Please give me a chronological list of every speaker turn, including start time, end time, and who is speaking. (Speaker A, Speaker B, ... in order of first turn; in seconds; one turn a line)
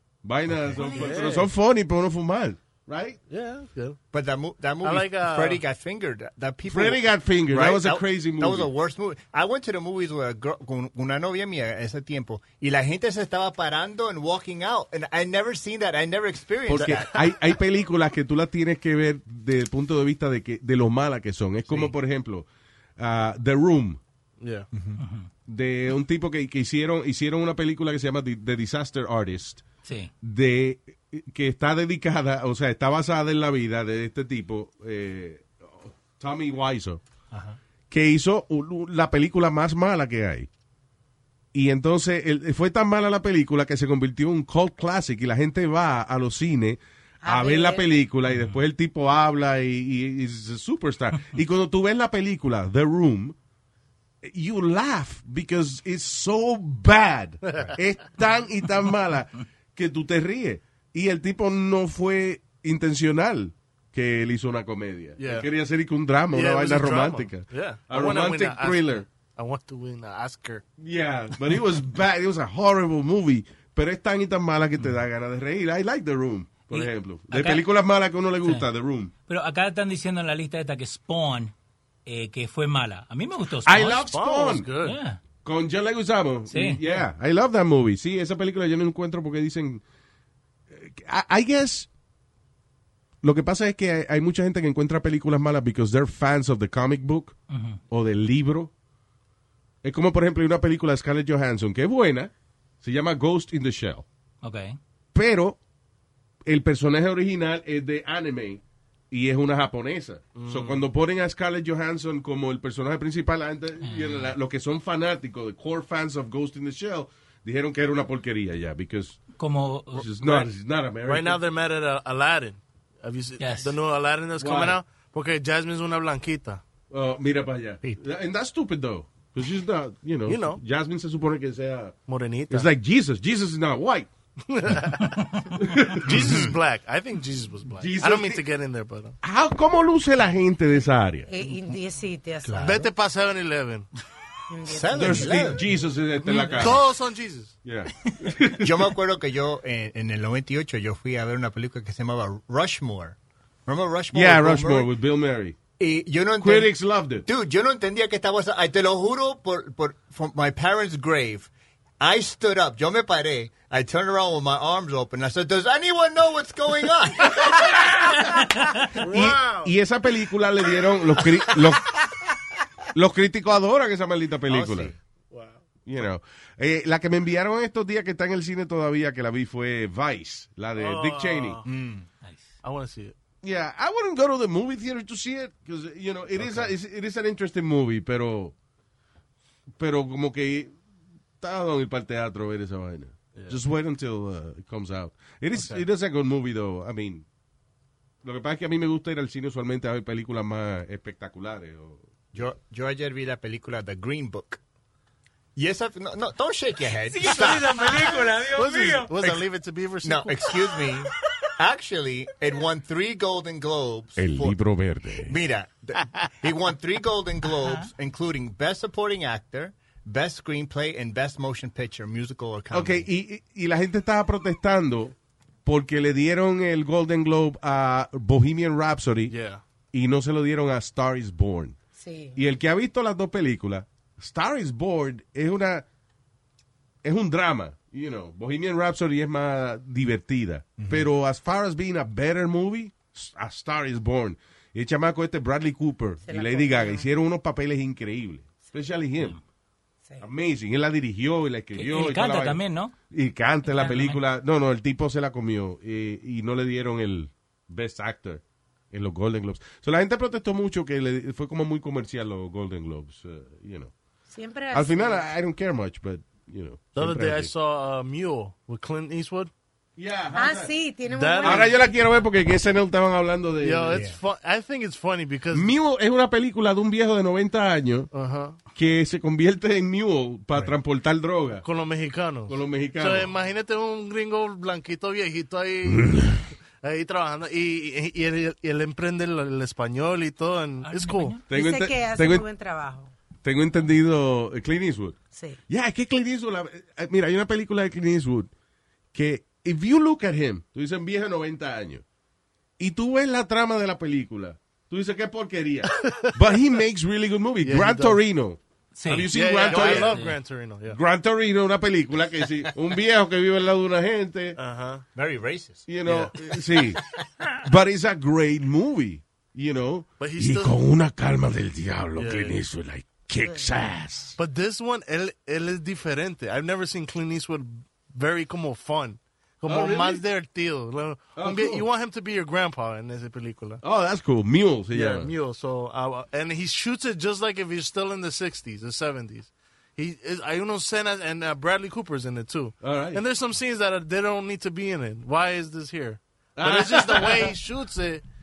Speaker A: 0.2-3.2
Speaker B: 0.9-1.5
Speaker B: 3.3-4.0
Speaker C: 4.1-17.2
Speaker B: 4.8-5.7
Speaker A: 6.7-8.7
Speaker A: 16.7-22.5
Speaker A: 23.0-24.0
Speaker B: 24.4-24.7
Speaker C: 24.7-25.0
Speaker D: 25.0-25.3
Speaker A: 25.5-29.6
Speaker D: 29.9-30.1
Speaker A: 30.2-37.0
Speaker A: 37.9-40.5
Speaker A: 41.5-53.4
Speaker E: 47.2-47.9
Speaker D: 48.3-48.6
Speaker A: 54.2-69.0
Speaker B: 65.2-65.5
Speaker B: 66.3-70.6
Speaker A: 70.8-79.1
Speaker D: 76.7-77.7
Speaker D: 79.3-81.5
Speaker D: 82.1-84.1
Speaker A: 83.6-84.7
Speaker B: 84.1-85.0
Speaker D: 84.8-85.2
Speaker A: 85.5-89.8
Speaker D: 86.5-86.8
Speaker A: 90.7-91.9
Speaker A: 93.2-97.3
Speaker D: 97.5-97.8
Speaker A: 97.9-98.7
Speaker A: 99.8-102.3
Speaker A: 102.8-104.0
Speaker D: 104.4-104.8
Speaker A: 105.1-105.6
Speaker A: 106.5-119.2
Speaker B: 110.4-110.8
Speaker D: 113.8-114.3
Speaker D: 119.4-120.1
Speaker A: 120.0-121.4
Speaker B: 120.2-126.6
Speaker D: 123.4-123.8
Speaker A: 124.4-124.8
Speaker A: 126.9-131.9
Speaker B: 130.3-130.6
Speaker B: 132.1-132.7
Speaker A: 132.5-134.1
Speaker B: 134.5-135.4
Speaker A: 135.6-136.3
Speaker B: 136.0-139.2
Speaker C: 136.2-136.6
Speaker A: 137.8-138.4
Speaker A: 139.2-141.3
Speaker E: 141.3-142.9
Speaker C: 142.4-142.8
Speaker B: 142.6-143.9
Speaker E: 144.5-145.6
Speaker C: 144.7-145.6
Speaker A: 145.0-146.8
Speaker B: 146.3-147.5
Speaker A: 147.6-148.8
Speaker C: 148.6-154.9
Speaker A: 154.1-155.6
Speaker C: 155.8-167.7
Speaker A: 156.4-157.3
Speaker B: 169.0-169.7
Speaker A: 169.0-172.0
Speaker A: 172.9-174.9
Speaker C: 174.5-175.0
Speaker B: 175.3-175.6
Speaker A: 175.9-181.6
Speaker B: 180.8-181.7
Speaker C: 181.6-182.1
Speaker B: 182.6-183.2
Speaker A: 183.4-188.5
Speaker B: 186.4-186.7
Speaker A: 189.8-190.7
Speaker A: 191.4-197.2
Speaker B: 195.6-195.9
Speaker A: 198.2-202.0
Speaker C: 202.3-204.6
Speaker C: 205.6-208.2
Speaker D: 207.0-209.1
Speaker B: 207.8-210.6
Speaker C: 209.1-209.4
Speaker C: 210.0-214.6
Speaker A: 214.2-215.4
Speaker C: 215.2-223.1
Speaker D: 217.6-217.9
Speaker A: 222.7-229.3
Speaker B: 229.3-229.6
Speaker A: 229.9-231.8
Speaker E: 232.0-232.4
Speaker A: 232.3-235.8
Speaker A: 237.0-249.4
Speaker C: 240.8-241.1
Speaker E: 246.2-247.1
Speaker A: 250.2-263.9
Speaker D: 251.7-252.9
Speaker D: 253.7-254.2
Speaker E: 264.3-265.3
Speaker A: 264.7-267.5
Speaker B: 267.0-269.5
Speaker A: 270.0-270.7
Speaker E: 270.3-271.8
Speaker B: 271.1-271.7
Speaker A: 271.4-274.1
Speaker B: 273.6-275.7
Speaker C: 273.9-274.2
Speaker A: 275.5-278.1
Speaker B: 278.1-278.6
Speaker A: 278.8-281.6
Speaker B: 281.6-291.4
Speaker A: 282.5-283.3
Speaker D: 290.8-291.4
Speaker A: 291.5-292.5
Speaker E: 291.5-293.1
Speaker A: 293.4-295.1
Speaker E: 295.3-295.6
Speaker A: 295.7-298.5
Speaker A: 299.1-302.0
Speaker A: 302.8-310.2
Speaker B: 305.9-306.4
Speaker B: 307.6-308.2
Speaker D: 308.9-310.4
Speaker B: 309.3-311.0
Speaker A: 310.9-314.6
Speaker B: 314.6-315.0
Speaker C: 315.1-315.9
Speaker A: 315.9-317.0
Speaker B: 316.0-317.0
Speaker A: 317.6-324.4
Speaker B: 320.2-320.8
Speaker B: 322.2-322.6
Speaker B: 324.4-333.8
Speaker A: 329.7-330.2
Speaker A: 331.4-331.9
Speaker A: 333.8-335.3
Speaker B: 334.9-348.2
Speaker A: 342.8-343.2
Speaker A: 346.6-347.5